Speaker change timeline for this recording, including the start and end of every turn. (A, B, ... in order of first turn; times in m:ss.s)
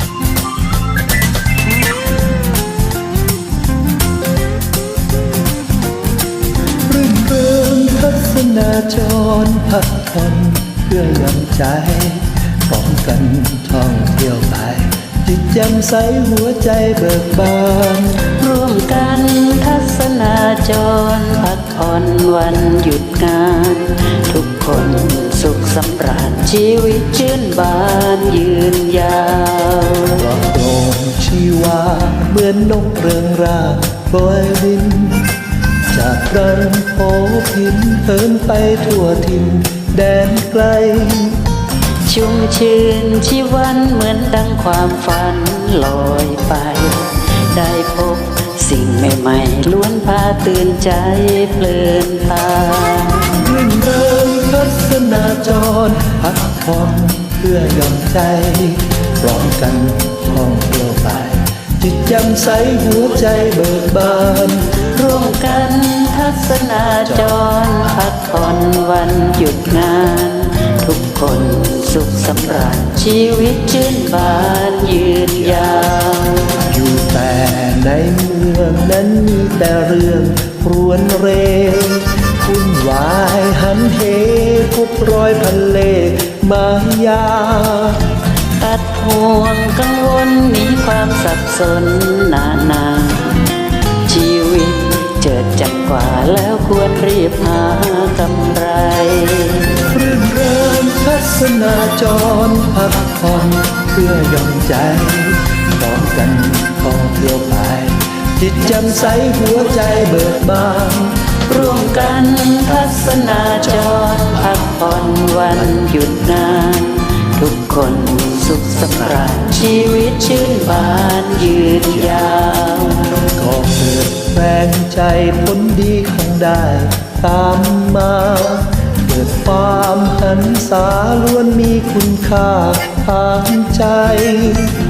0:06.9-0:18.2 A
0:18.2-0:30.2 B
0:30.2-0:35.3 A
0:35.9-0:41.4 A
0:42.0-0:53.3 B
0:53.4-1:04.8 A
1:04.7-1:16.6 B
1:16.6-1:28.0 A
1:28.6-1:33.5 B
1:34.0-1:39.8 B
1:39.9-1:51.2 A
1:51.5-2:03.2 B
2:03.3-2:14.7 A